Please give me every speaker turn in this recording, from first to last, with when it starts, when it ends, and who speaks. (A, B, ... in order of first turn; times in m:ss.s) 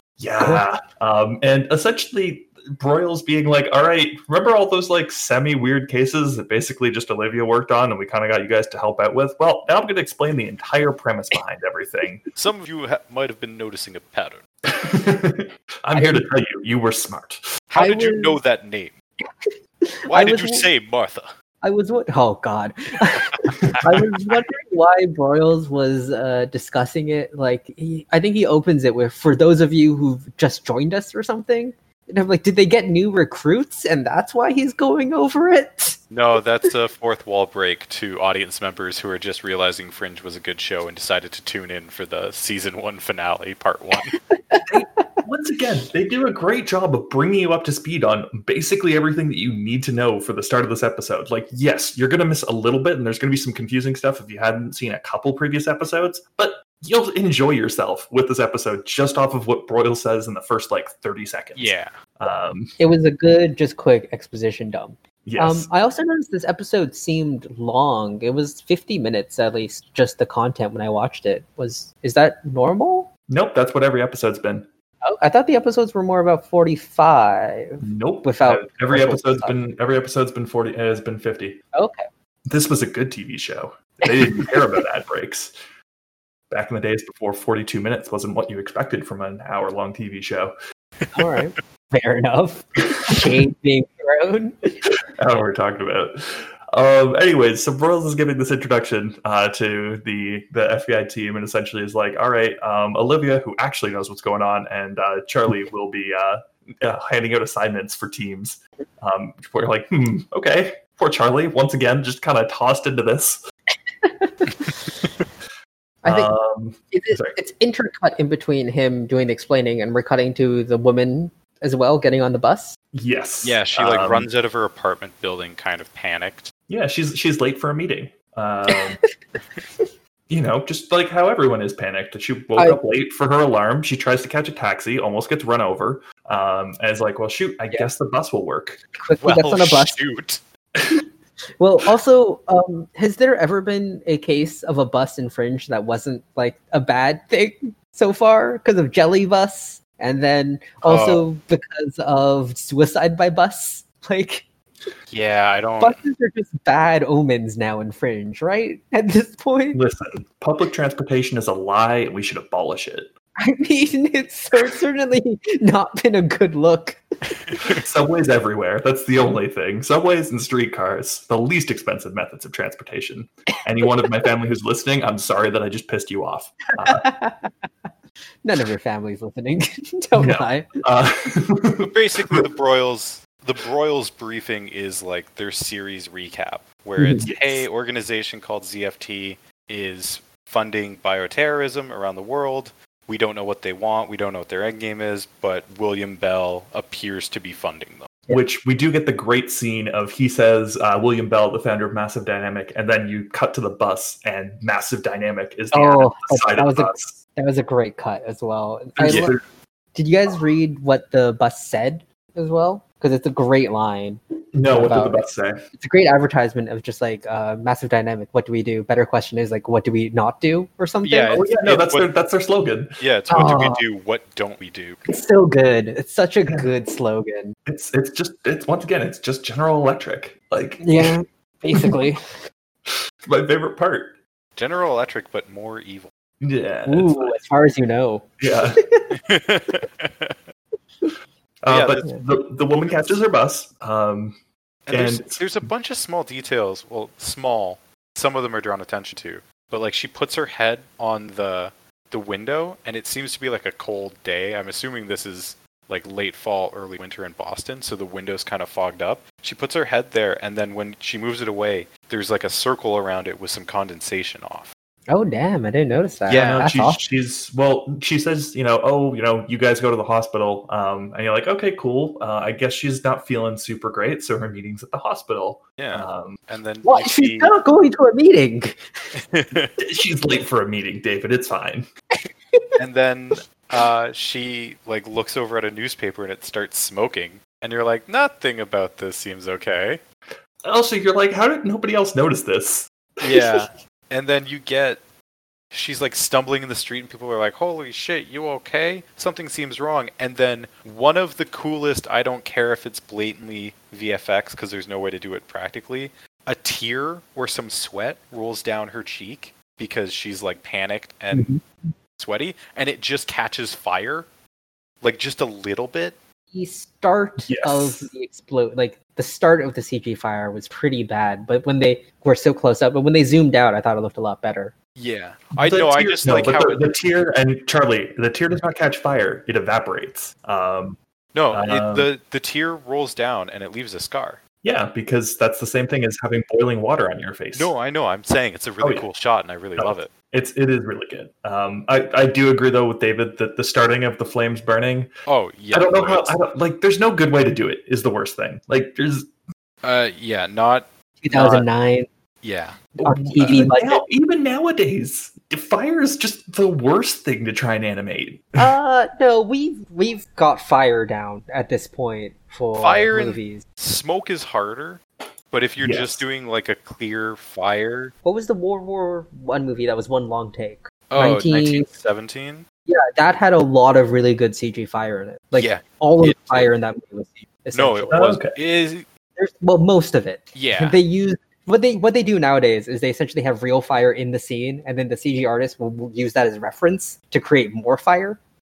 0:00.2-0:12.2 A
0:12.4-0:14.4 B
0:14.6-0:17.4 A
0:15.9-0:16.2 C
0:17.7-0:18.9 B
0:17.8-0:18.4 C
0:19.4-0:20.7 C
0:20.1-0:21.3 B
0:21.6-0:36.0 C
0:23.5-0:23.8 B
0:36.1-0:44.1 B
0:44.6-1:02.7 A
1:01.6-1:01.9 B
1:02.8-1:13.1 C
1:05.2-1:05.7 A
1:13.3-1:14.6 A
1:15.0-1:19.6 C
1:17.8-1:21.6 A
1:21.7-1:22.0 C
1:22.5-1:25.5 A
1:24.0-1:24.6 C
1:26.5-1:30.5 A
1:31.1-1:34.8 C
1:31.2-1:31.4 B
1:35.2-1:53.4 A
1:54.0-1:54.8 C
1:56.0-1:56.3 C
1:56.0-1:57.4 A
1:56.9-2:02.8 C
2:02.9-2:04.3 A
2:03.4-2:06.5 B
2:06.7-2:09.0 A
2:10.3-2:18.8 A
2:19.0-2:20.0 C
2:19.2-2:20.4 B
2:21.6-2:34.5 C
2:30.8-2:31.2 B
2:35.1-2:36.0 B
2:35.8-2:39.8 C
2:39.7-2:43.1 A
2:43.4-2:47.8 C
2:47.8-2:57.0 A
2:56.8-2:57.7 C
2:58.4-3:00.7 C
3:00.2-3:02.5 A
3:01.8-3:18.1 B
3:07.0-3:07.2 C
3:07.1-3:07.6 A
3:18.3-3:27.2 A
3:25.7-3:29.4 C
3:29.0-3:29.4 A
3:29.0-3:29.3 B
3:29.9-3:41.4 C
3:34.5-3:35.6 A
3:41.0-3:42.1 B
3:41.3-3:43.0 A
3:43.0-3:45.0 B
3:43.3-3:43.8 C
3:45.1-3:47.5 C
3:47.6-3:51.2 A
3:50.8-3:52.2 C
3:51.7-3:52.0 A
3:53.2-3:54.2 A
3:54.6-3:56.1 B
3:56.4-3:57.4 A
3:56.9-3:58.3 C
3:58.4-3:58.8 A
3:59.2-4:00.3 B
4:01.6-4:04.4 A
4:01.7-4:02.0 B
4:04.9-4:24.7 B
4:04.9-4:05.4 A
4:25.1-4:27.0 C
4:26.3-4:26.7 B
4:26.3-4:36.4 A
4:35.8-4:37.5 B
4:36.8-4:38.8 C
4:39.1-4:39.7 B
4:39.8-4:41.8 A
4:42.8-4:50.0 B
4:50.6-4:53.6 A
4:53.2-4:55.0 B
4:55.7-5:11.5 B
5:11.3-5:11.6 C
5:12.2-5:14.3 B
5:15.0-5:16.2 B
5:16.5-5:24.7 C
5:17.4-5:18.1 A
5:25.0-5:26.9 B
5:25.6-5:31.0 A
5:31.3-5:34.4 B
5:31.5-5:32.1 A
5:34.6-5:37.7 A
5:37.5-5:40.1 B
5:38.8-5:39.0 A
5:39.8-5:45.1 A
5:45.3-5:46.4 B
5:45.7-5:49.3 A
5:49.8-5:51.6 B
5:51.2-5:52.1 C
5:52.4-5:52.9 B
5:53.0-5:58.7 A
5:53.0-5:54.0 C
5:58.6-6:03.6 C
6:02.8-6:08.1 B
6:05.8-6:06.2 A
6:08.2-6:11.9 C
6:11.1-6:12.6 B
6:12.9-6:18.3 C
6:15.5-6:16.7 B
6:17.7-6:19.0 B
6:18.1-6:18.6 A
6:19.4-6:28.4 C
6:20.5-6:21.0 B